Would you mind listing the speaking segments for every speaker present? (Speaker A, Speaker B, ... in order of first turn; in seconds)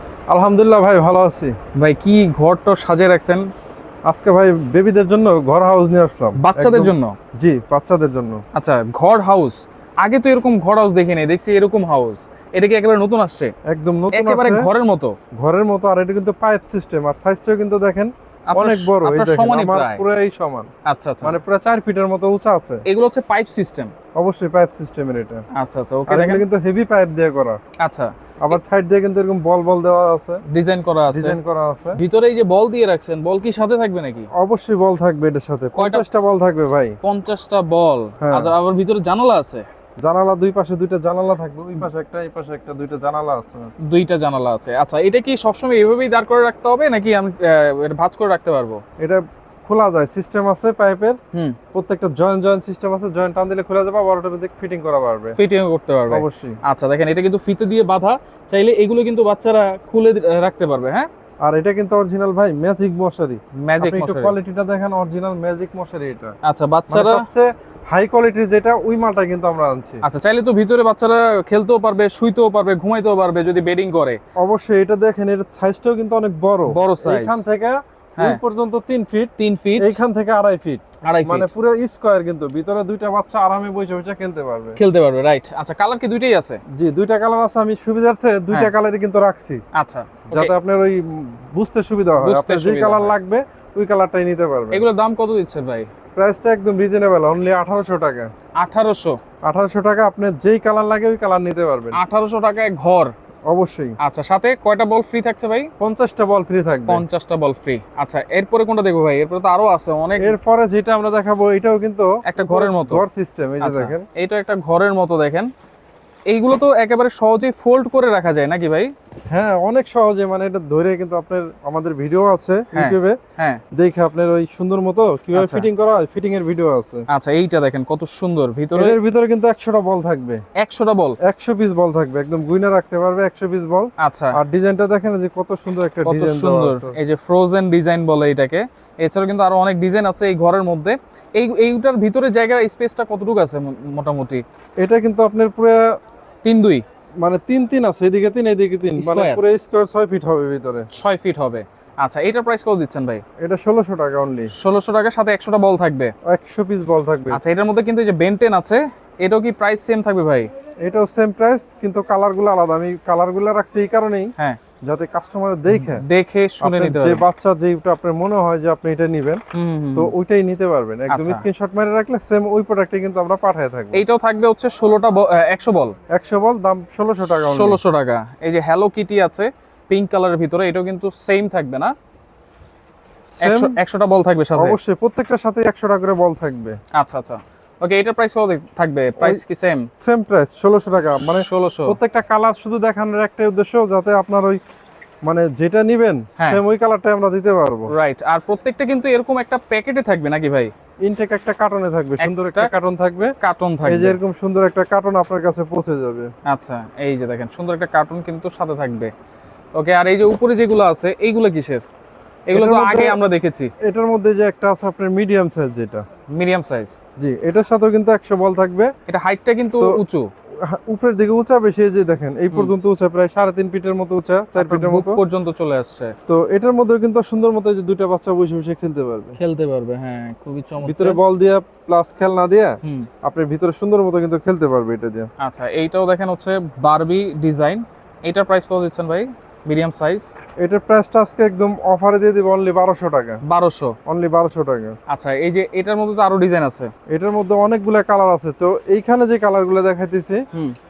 Speaker A: 0.3-1.5, 4.1-8.4, 13.7-14.7, 15.4-20.7, 21.2-22.8, 24.2-25.4, 26.1-27.6, 28.4-30.4, 31.1-32.0, 34.3-37.0, 38.2-38.5, 40.0-43.7, 49.0-51.1, 51.7-55.4, 56.1-56.6, 61.4-66.3, 66.9-70.0, 74.4-84.8, 86.7-89.6, 90.3-94.8, 96.2-98.3, 99.5-102.0, 103.5-104.0, 105.8-107.0, 110.2-114.0, 119.3-123.2, 123.7-127.0, 128.8-130.4, 131.2-136.9, 144.8-145.8, 147.2-150.9, 153.4-154.5, 156.2-157.4, 160.8-164.3, 164.8-166.0, 166.6-169.4, 169.9-174.0, 176.1-177.8, 183.3-183.8, 184.6-186.8, 190.0-194.6, 195.2-197.9, 201.0-203.3, 203.8-206.3, 212.5-213.2, 213.8-216.0, 217.2-218.9, 220.7-225.2, 226.3-229.4, 230.8-235.3, 240.6-243.4, 244.1-244.9, 247.1-250.4
Speaker B: 1.7-3.5, 6.4-7.2, 8.5-13.5, 14.1-15.1, 18.5-20.0, 20.9-21.4, 22.9-23.9, 25.5-26.4, 27.8-28.1, 30.5-31.4, 32.0-34.3, 35.7-36.0, 37.0-39.6, 43.8-48.8, 55.4-61.1, 63.6-64.3, 66.4-67.2, 70.0-74.2, 76.7-77.4, 79.4-80.0, 81.0-81.5, 84.8-86.6, 89.7-90.5, 92.2-93.1, 94.7-95.9, 98.6-99.2, 101.9-103.1, 104.0-105.7, 106.9-110.3, 112.2-113.0, 113.6-115.5, 116.3-118.9, 122.7-123.6, 125.3-125.7, 127.1-129.0, 130.6-131.2, 134.0-134.4, 136.0-144.4, 146.4-146.8, 149.0-149.4, 150.9-153.2, 154.5-156.1, 157.3-160.5, 165.7-167.2, 169.5-170.1, 171.1-171.4, 173.9-175.9, 177.3-181.9, 183.4-184.8, 186.9-189.9, 191.3-192.0, 197.9-200.7, 202.2-202.7, 203.4-204.2, 206.4-209.1, 209.7-211.8, 212.5-213.7, 216.3-217.0, 219.1-220.3, 224.6-226.1, 229.4-231.2, 235.4-240.3, 243.4-243.9, 245.1-246.9